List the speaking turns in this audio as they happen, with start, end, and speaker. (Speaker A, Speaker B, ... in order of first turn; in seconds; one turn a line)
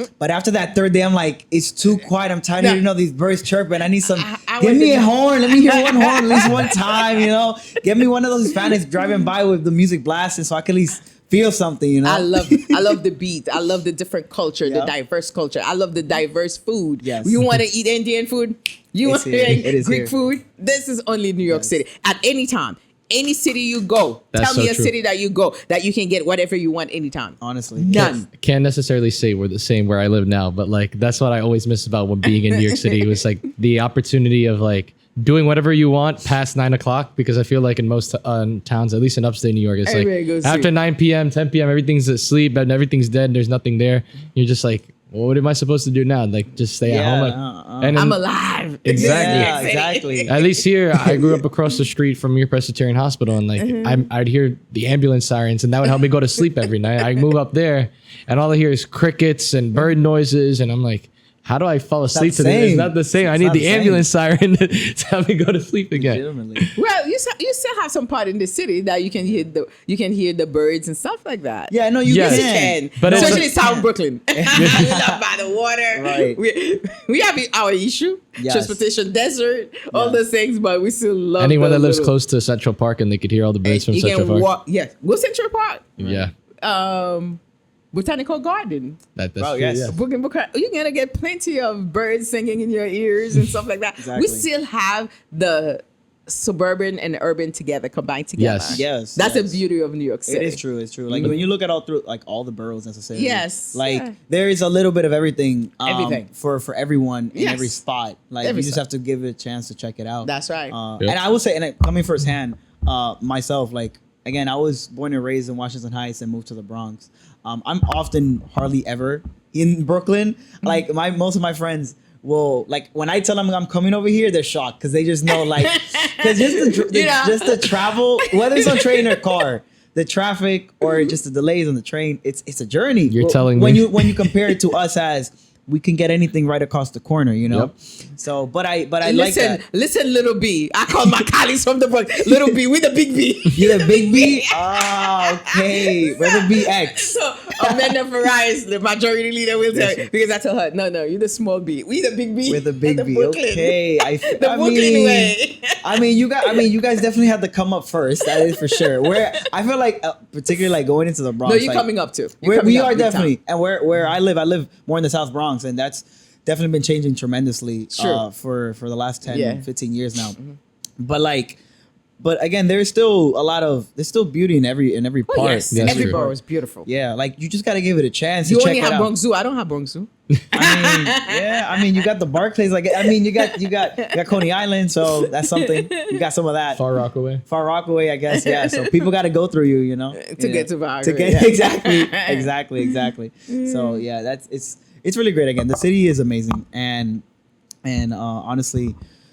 Speaker A: 0.2-12.9
Speaker B: 4.2-7.3
Speaker B: 8.6-9.2
Speaker B: 12.0-28.3
Speaker A: 14.6-14.9
Speaker A: 17.0-17.5
Speaker A: 19.0-20.1
Speaker A: 21.5-21.8
Speaker C: 24.3-24.9
Speaker A: 27.4-28.2
Speaker C: 27.9-48.2
Speaker B: 32.3-33.2
Speaker B: 39.9-40.7
Speaker A: 46.9-48.0
Speaker B: 48.0-51.4
Speaker C: 48.8-49.5
Speaker A: 48.9-50.3
Speaker C: 50.3-66.7
Speaker B: 53.6-54.0
Speaker A: 62.1-64.1
Speaker A: 65.9-66.7
Speaker B: 66.8-82.1
Speaker A: 71.7-75.2
Speaker C: 72.0-73.5
Speaker C: 74.6-74.8
Speaker A: 75.9-76.4
Speaker A: 78.4-78.8
Speaker A: 79.9-80.2
Speaker C: 81.4-84.5
Speaker B: 83.7-86.0
Speaker A: 86.0-86.3
Speaker C: 86.0-86.3
Speaker B: 86.6-87.4
Speaker B: 87.9-89.0
Speaker C: 89.2-90.0
Speaker A: 89.4-90.0
Speaker B: 89.9-100.6
Speaker A: 94.0-94.5
Speaker C: 98.4-98.8
Speaker A: 98.7-99.6
Speaker A: 100.3-139.6
Speaker C: 101.1-101.4
Speaker B: 103.1-104.1
Speaker B: 105.8-106.3
Speaker B: 107.3-107.8
Speaker B: 108.4-108.8
Speaker B: 110.2-110.8
Speaker B: 125.3-129.2
Speaker C: 133.1-133.9
Speaker B: 139.0-155.8
Speaker A: 143.5-148.0
Speaker A: 149.7-150.1
Speaker A: 152.5-161.9
Speaker B: 158.3-159.4
Speaker B: 161.4-163.3
Speaker A: 162.4-170.4
Speaker B: 167.9-168.2
Speaker B: 169.3-169.7
Speaker A: 171.0-171.6
Speaker A: 172.2-179.1
Speaker B: 175.3-176.9
Speaker C: 175.7-176.2
Speaker B: 178.4-182.0
Speaker A: 180.5-186.8
Speaker B: 183.0-184.4
Speaker B: 185.1-186.2
Speaker C: 186.7-187.4
Speaker A: 187.5-197.2
Speaker B: 188.3-188.9
Speaker B: 190.2-194.0
Speaker A: 197.8-198.9